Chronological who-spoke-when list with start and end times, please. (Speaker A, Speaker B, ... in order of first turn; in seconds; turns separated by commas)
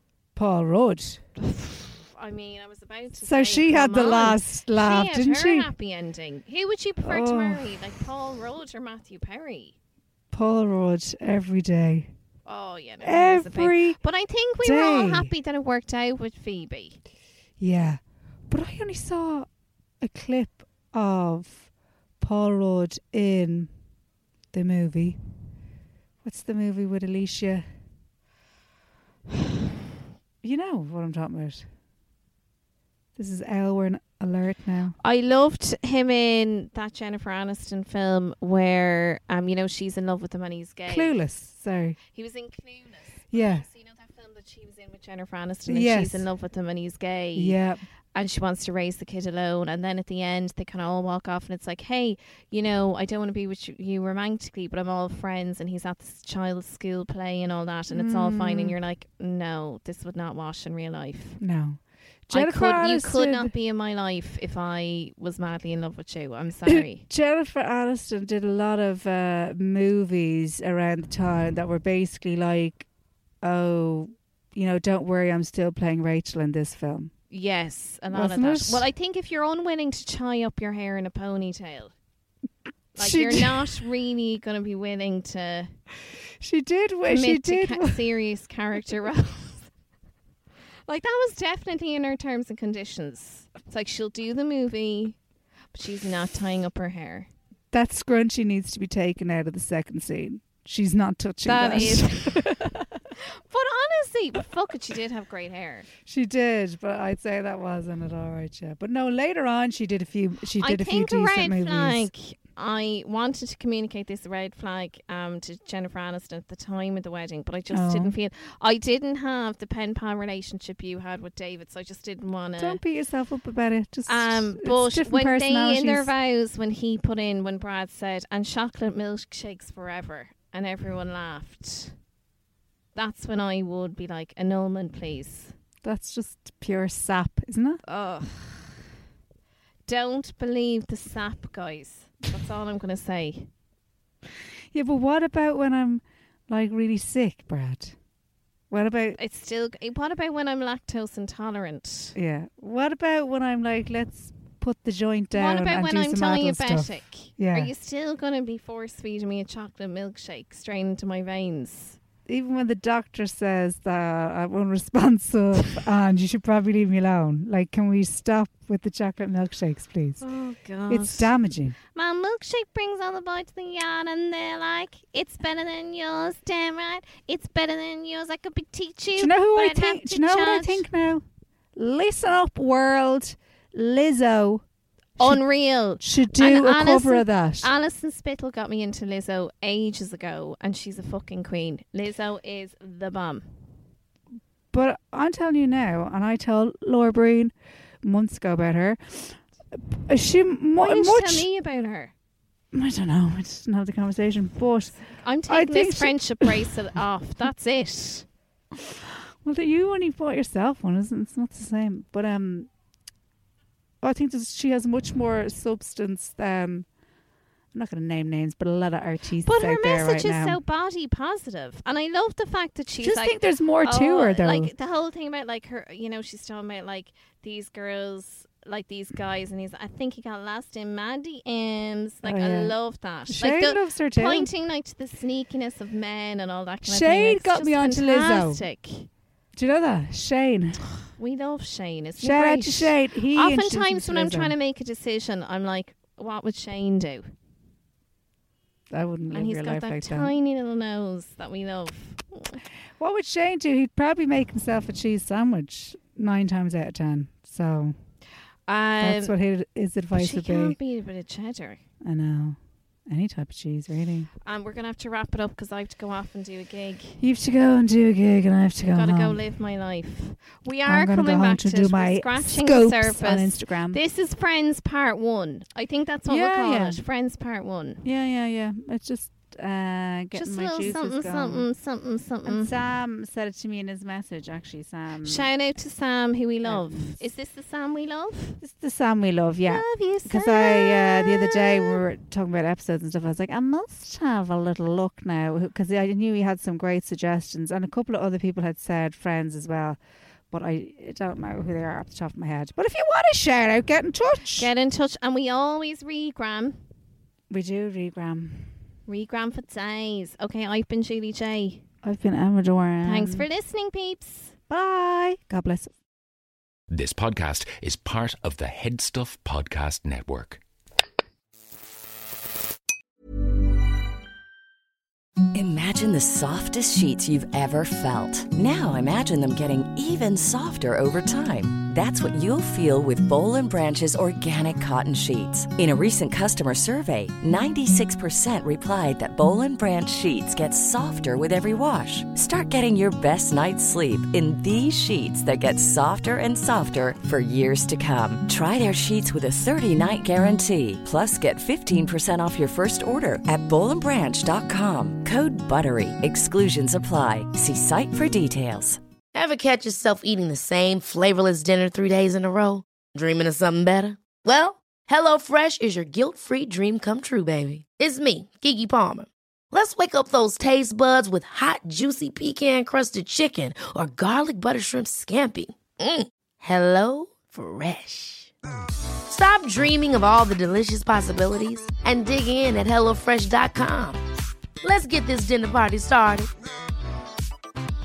Speaker A: 0.3-1.2, Speaker B: 1.4-9.7, Speaker A: 3.2-5.7, Speaker A: 7.0-7.7, Speaker A: 10.3-12.1, Speaker B: 12.4-17.0, Speaker A: 13.0-14.0, Speaker A: 14.6-15.3, Speaker A: 17.6-19.5, Speaker A: 20.0-23.7, Speaker A: 24.5-25.2, Speaker A: 26.2-27.7, Speaker A: 30.4-31.7, Speaker A: 33.1-35.0, Speaker B: 35.0-41.1, Speaker A: 40.9-42.0, Speaker B: 42.1-47.6, Speaker A: 43.3-43.6, Speaker A: 45.7-46.3, Speaker A: 47.3-47.8, Speaker B: 48.1-61.4, Speaker A: 57.9-58.8, Speaker A: 61.4-63.5, Speaker B: 62.3-67.0, Speaker A: 66.7-72.9, Speaker A: 73.4-77.1, Speaker B: 77.3-81.9, Speaker A: 78.1-78.8, Speaker A: 83.0-83.8, Speaker B: 83.0-85.8, Speaker A: 86.4-88.0, Speaker B: 87.1-89.7, Speaker B: 90.9-95.2, Speaker B: 95.7-97.3, Speaker A: 97.7-103.0, Speaker B: 101.4-102.5, Speaker B: 103.2-105.9, Speaker A: 106.0-112.1, Speaker B: 110.6-122.8, Speaker A: 117.7-118.1, Speaker A: 122.6-126.1, Speaker B: 124.1-132.0, Speaker B: 132.9-135.6, Speaker A: 135.8-137.8, Speaker B: 137.9-138.8, Speaker B: 139.8-143.5, Speaker A: 144.7-147.9, Speaker A: 148.7-149.2, Speaker B: 149.2-152.2, Speaker A: 152.1-157.7, Speaker B: 155.3-162.0, Speaker A: 162.2-170.2, Speaker B: 170.2-180.8, Speaker A: 170.9-171.8, Speaker A: 179.1-181.2, Speaker A: 181.8-184.6, Speaker A: 185.2-187.7, Speaker B: 185.2-193.5, Speaker A: 194.7-199.4, Speaker A: 199.9-201.5, Speaker B: 200.8-202.1, Speaker A: 202.7-206.7, Speaker B: 204.9-208.3, Speaker A: 208.7-212.7, Speaker A: 214.0-216.9, Speaker A: 217.7-220.6, Speaker B: 219.4-239.1, Speaker A: 223.0-224.7, Speaker A: 232.2-234.5, Speaker A: 236.8-238.6, Speaker A: 239.5-240.8, Speaker B: 241.1-247.3, Speaker A: 242.2-244.5, Speaker A: 248.9-250.3, Speaker B: 249.3-252.6, Speaker A: 253.0-257.9, Speaker B: 258.7-259.3, Speaker A: 259.0-260.8, Speaker B: 260.1-261.8, Speaker A: 262.0-264.3, Speaker B: 264.4-267.2, Speaker A: 267.2-269.4, Speaker B: 268.9-278.0, Speaker A: 270.8-274.0, Speaker A: 276.2-277.0, Speaker A: 278.0-281.7, Speaker B: 280.3-282.7, Speaker A: 282.4-285.5, Speaker B: 285.2-288.6, Speaker A: 286.6-287.2, Speaker A: 288.6-304.7, Speaker B: 289.6-292.0, Speaker B: 304.6-306.8, Speaker A: 307.5-308.8, Speaker B: 309.1-311.8, Speaker A: 312.0-313.4, Speaker B: 313.0-314.6, Speaker A: 314.7-315.9, Speaker C: 316.9-320.6, Speaker D: 325.5-359.0, Speaker E: 359.3-378.5, Speaker E: 379.3-384.2, Speaker E: 384.8-386.5